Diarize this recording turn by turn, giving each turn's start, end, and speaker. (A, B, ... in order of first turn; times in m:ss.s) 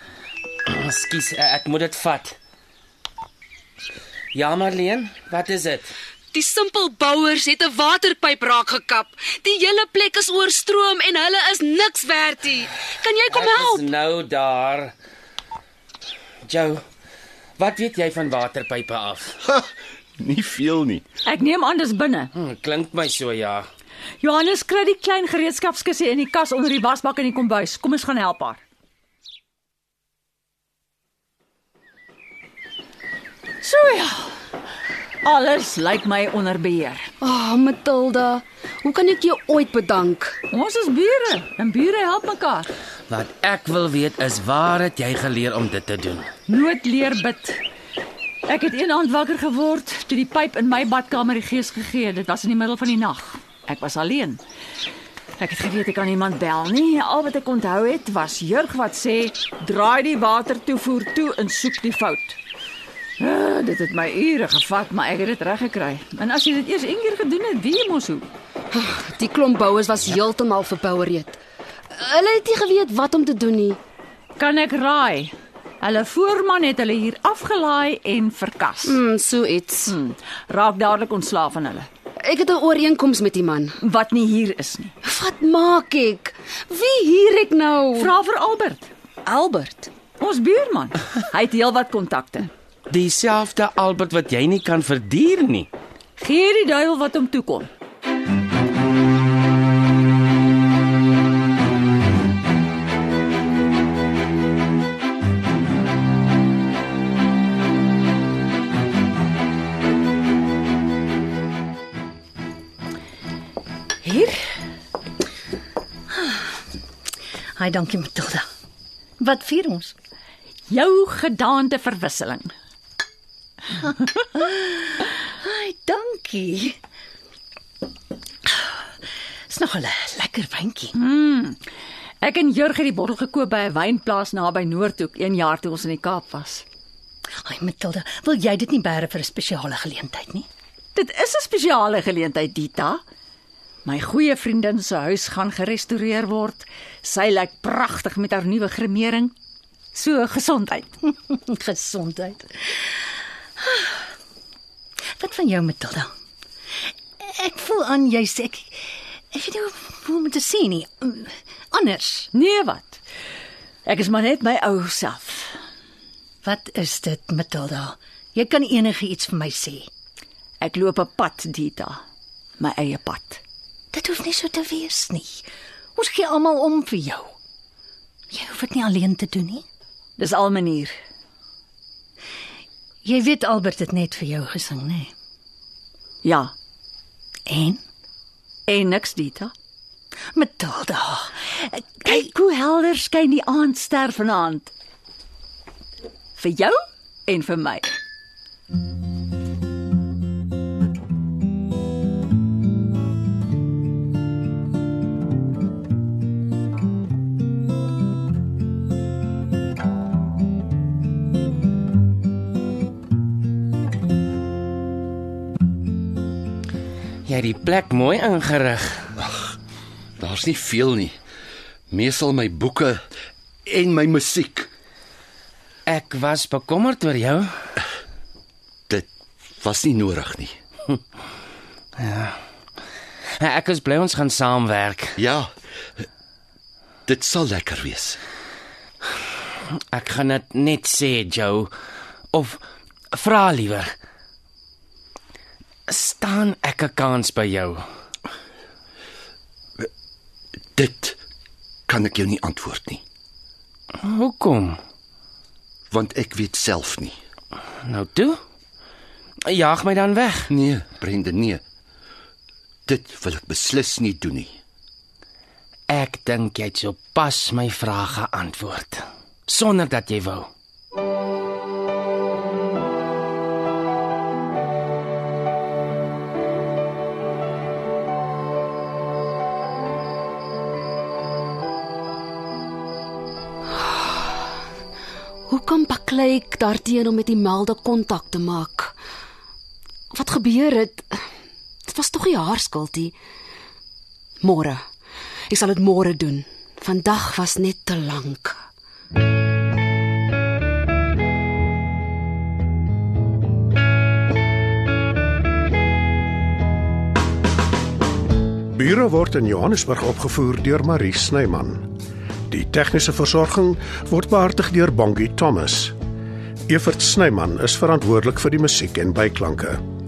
0:00.7-0:02.4 A
0:04.3-0:05.9 A
0:06.3-0:13.8 B
0:13.3-0:14.9 A
0:16.4-0:16.8 A
0:17.6-0:19.4 A
0:19.5-0:21.0 C
0:21.2-0:22.3 D
0:22.3-0:23.7 A
0:24.2-0:28.6 D
0:33.6-0:34.4 D
0:35.2-0:37.1 D
0:37.2-0:40.4 B
0:40.5-0:42.7 D
0:43.1-0:46.3 A
0:46.5-0:47.6 D
0:48.4-0:54.4 D
0:55.4-1:02.4 D
1:03.2-1:08.3 D
1:08.7-1:11.4 B
1:11.9-1:13.8 B
1:14.4-1:19.0 D
1:18.8-1:20.0 B
1:19.8-1:21.9 D
1:22.2-1:23.8 B
1:23.8-1:24.9 D
1:25.0-1:28.1 B
1:27.9-1:28.9 D
1:29.2-1:29.9 B
1:30.2-1:32.5 D
1:32.9-1:35.7 A
1:36.2-1:37.7 D
1:54.0-1:54.4 D
1:57.6-1:58.4 E
1:59.2-1:59.9 E
2:00.7-2:02.5 D
2:04.3-2:06.8 E
2:09.5-2:10.9 E
2:10.9-2:11.6 D
2:12.2-2:16.6 D
2:17.4-2:20.5 E
2:20.9-2:23.0 D
2:23.8-2:29.3 D
2:29.9-2:30.9 D
2:31.1-2:32.6 E
2:33.6-2:33.9 E
2:35.2-2:36.1 E
2:37.2-2:38.8 E
2:39.3-2:42.3 E
2:42.3-2:43.0 D
2:43.8-2:45.6 D
2:46.4-2:49.9 E
2:50.6-2:52.0 D
2:52.6-2:53.4 D
2:53.9-2:55.4 E
2:56.0-2:57.3 E
2:58.3-2:59.6 E
3:00.2-3:00.9 D
3:03.0-3:05.1 E
3:06.2-3:06.5 D
3:07.5-3:07.8 E
3:08.7-3:09.5 D
3:10.3-3:11.5 E
3:12.0-3:14.7 D
3:16.4-3:17.9 D
3:37.2-3:39.1 A
3:39.2-3:39.5 C
3:40.2-3:41.2 C
3:41.9-3:43.0 C
3:43.6-3:44.7 C
3:45.9-3:47.5 A
3:48.9-3:50.6 C
3:52.0-3:52.4 A
3:53.4-3:55.2 A
3:55.2-3:55.5 C
3:57.1-3:58.2 C
3:59.7-4:01.7 A
4:02.3-4:02.6 A
4:03.1-4:03.9 A
4:05.9-4:07.8 A
4:10.7-4:11.2 C
4:11.9-4:13.0 C
4:14.0-4:14.8 A
4:15.9-4:17.2 C
4:17.8-4:18.4 A
4:19.4-4:20.5 A
4:20.5-4:21.6 C
4:22.9-4:24.6 C
4:25.9-4:30.5 A
4:43.8-4:44.4 B
4:45.5-4:48.9 B
4:50.1-4:51.2 B
4:51.9-4:53.1 B
4:54.4-4:54.8 B
4:55.5-4:58.6 B
5:08.7-5:11.8 F
5:12.5-5:15.9 F
5:16.7-5:19.8 F